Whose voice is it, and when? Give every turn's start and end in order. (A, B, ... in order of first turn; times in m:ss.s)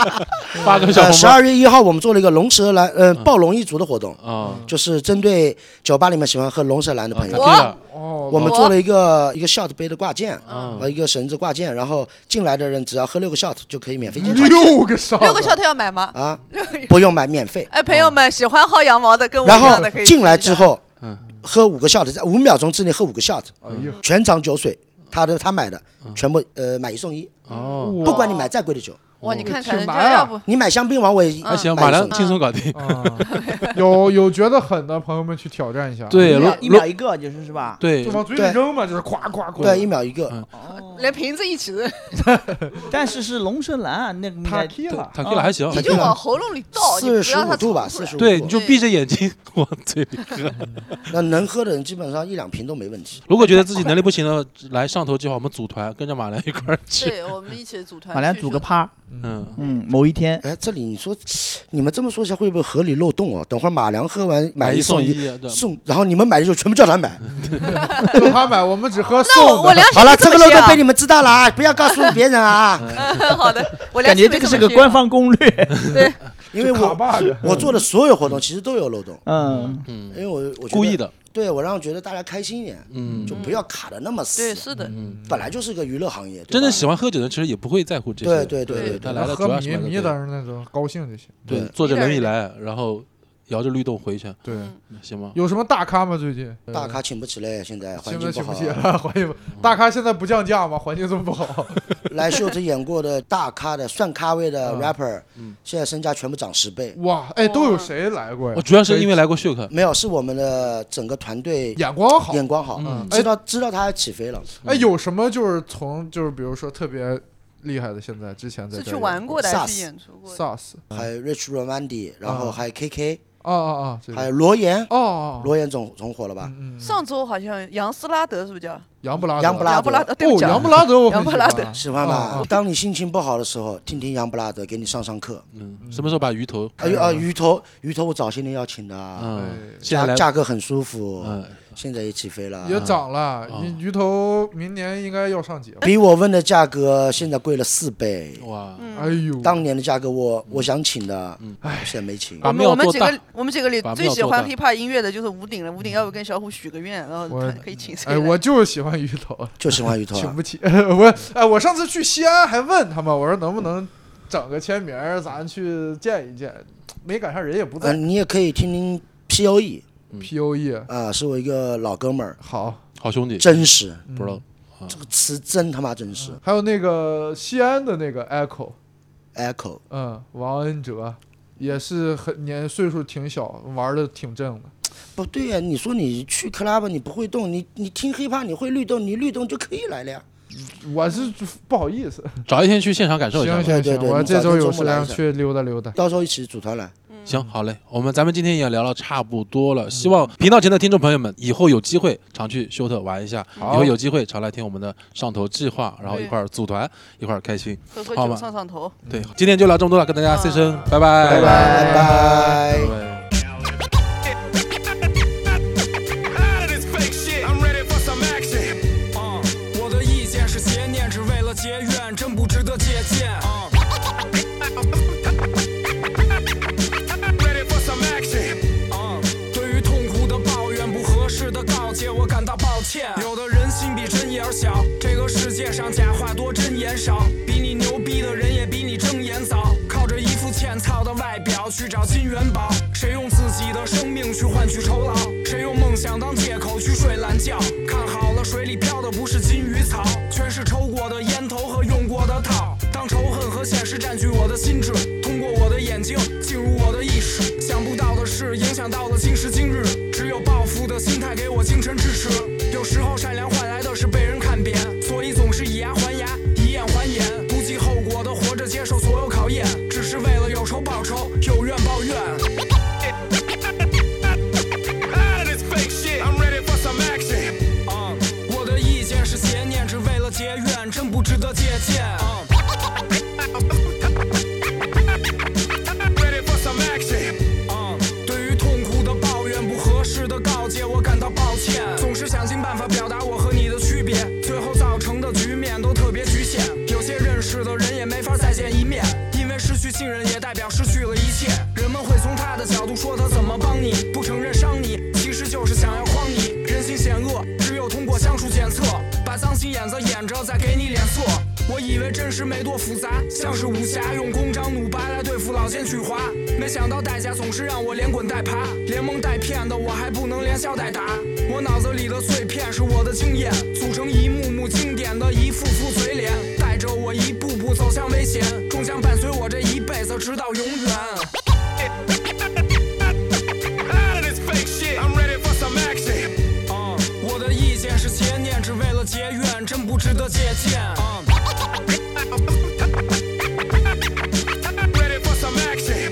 0:00.5-0:01.0 A
0:00.5-0:01.4 B
0:00.8-0:07.7 C
0:04.2-0:04.6 B
0:04.4-0:04.7 A
0:07.1-0:07.8 B
0:07.3-0:07.8 D
0:07.8-0:08.6 A
0:08.3-0:14.7 C
0:08.4-0:08.7 D
0:10.5-0:10.8 D
0:10.5-0:10.9 B
0:14.2-0:15.6 A
0:15.1-0:16.9 D
0:16.1-0:17.7 C
0:17.7-0:20.7 D
0:17.9-0:18.2 B
0:19.4-0:20.8 C
0:19.5-0:19.9 A
0:21.4-0:27.4 C
0:23.6-0:24.0 A
0:23.6-0:23.9 B
0:27.5-0:28.0 B
0:27.5-0:28.5 D
0:27.8-0:28.4 A
0:28.0-0:29.0 C
0:29.2-0:29.6 B
0:29.2-0:30.4 D
0:29.2-0:30.2 A
0:29.9-0:32.2 C
0:31.4-0:33.7 B
0:31.4-0:32.4 D
0:32.7-0:36.3 A
0:33.2-0:33.8 D
0:36.1-0:36.9 B
0:36.2-0:37.8 E
0:36.2-0:36.6 D
0:37.8-0:38.3 B
0:38.0-0:39.9 A
0:38.3-0:38.6 C
0:39.5-0:40.5 B
0:39.6-0:40.4 C
0:40.5-0:41.2 E
0:40.7-0:42.4 D
0:42.9-0:45.5 E
0:44.4-0:45.2 A
0:44.9-0:46.1 B
0:45.2-0:48.8 D
0:45.7-0:46.2 C
0:45.8-0:46.1 A
0:46.7-0:48.5 C
0:48.2-0:51.0 B
0:51.1-0:53.2 C
0:53.3-0:57.5 B
0:53.4-0:53.9 D
0:56.9-0:58.7 D
0:58.1-0:58.9 E
0:59.1-0:59.6 A
0:59.2-0:59.6 B
0:59.6-1:00.4 E
1:00.4-1:07.2 C
1:04.6-1:05.6 B
1:07.3-1:07.8 B
1:07.3-1:10.0 A
1:07.7-1:08.2 D
1:09.2-1:10.8 D
1:09.9-1:13.3 C
1:11.9-1:12.2 D
1:12.8-1:13.6 B
1:12.9-1:15.0 D
1:14.0-1:16.0 E
1:15.9-1:16.2 D
1:16.5-1:17.7 A
1:16.5-1:19.2 C
1:19.2-1:19.9 E
1:19.5-1:19.8 D
1:19.8-1:21.1 B
1:20.1-1:24.7 C
1:22.9-1:23.5 B
1:23.0-1:23.3 A
1:23.3-1:23.6 D
1:24.4-1:24.9 D
1:24.8-1:25.5 A
1:24.9-1:25.2 B
1:25.3-1:26.8 C
1:26.5-1:30.2 B
1:28.2-1:29.1 C
1:28.7-1:31.6 A
1:31.5-1:34.4 B
1:31.5-1:31.7 C
1:31.8-1:32.3 D
1:34.4-1:34.7 A
1:34.5-1:34.8 D
1:34.9-1:35.4 B
1:35.3-1:37.0 A
1:36.7-1:38.9 C
1:38.0-1:42.0 A
1:42.1-1:47.0 C
1:44.6-1:44.9 A
1:46.9-1:49.1 A
1:47.4-1:47.9 D
1:48.5-1:49.7 B
1:49.7-1:54.5 C
1:51.8-1:53.3 A
1:52.8-1:53.1 B
1:54.6-1:54.9 B
1:54.6-1:59.4 A
1:58.7-2:00.4 D
1:59.3-1:59.9 C
2:00.3-2:01.1 A
2:00.9-2:03.2 C
2:02.2-2:02.6 A
2:03.4-2:04.3 A
2:04.1-2:06.5 C
2:04.9-2:05.5 A
2:06.4-2:07.0 A
2:06.8-2:08.8 D
2:09.0-2:12.5 A
2:09.4-2:10.1 C
2:09.6-2:12.5 D
2:11.7-2:15.4 C
2:15.5-2:16.8 B
2:15.8-2:16.2 A
2:16.8-2:19.3 C
2:16.8-2:17.2 A
2:19.2-2:20.2 B
2:19.3-2:19.8 A
2:19.8-2:22.9 C
2:21.2-2:21.6 B
2:22.6-2:25.8 A
2:22.8-2:23.8 B
2:25.8-2:28.4 C
2:28.4-2:28.9 B
2:28.8-2:29.3 D
2:28.9-2:29.6 A
2:29.4-2:32.4 C
2:31.6-2:32.0 A
2:32.4-2:33.2 B
2:32.4-2:38.4 D
2:33.8-2:34.5 B
2:37.3-2:48.0 A
2:39.6-2:40.4 C
2:47.8-2:49.8 C
2:50.2-2:50.9 A
2:50.9-2:52.4 C
2:52.4-2:52.8 A
2:53.0-2:55.0 B
2:53.4-2:54.1 C
2:54.1-2:54.4 A
2:54.9-2:56.4 C
2:56.2-2:58.8 A
2:59.3-2:59.8 C
2:59.9-3:04.7 A
3:05.2-3:10.2 C
3:10.5-3:12.5 A
3:12.5-3:13.8 B
3:13.3-3:16.0 A
3:13.6-3:15.2 C
3:15.9-3:16.9 C
3:17.2-3:28.4 B
3:23.6-3:23.8 D
3:23.6-3:23.9 A
3:26.0-3:26.3 D
3:27.9-3:29.0 D
3:29.0-3:29.3 A
3:29.0-3:33.3 B
3:30.3-3:31.0 D
3:31.2-3:32.9 C
3:31.2-3:32.6 A
3:31.2-3:32.0 E
3:36.7-3:37.4 F
3:38.1-3:38.3 F
3:39.5-3:43.7 G
3:48.9-4:32.5 G
4:35.3-4:37.4 F
4:37.9-4:42.4 G
4:47.9-5:31.3 G
5:35.4-5:36.0 F
5:36.9-5:41.2 G
5:45.6-5:45.9 F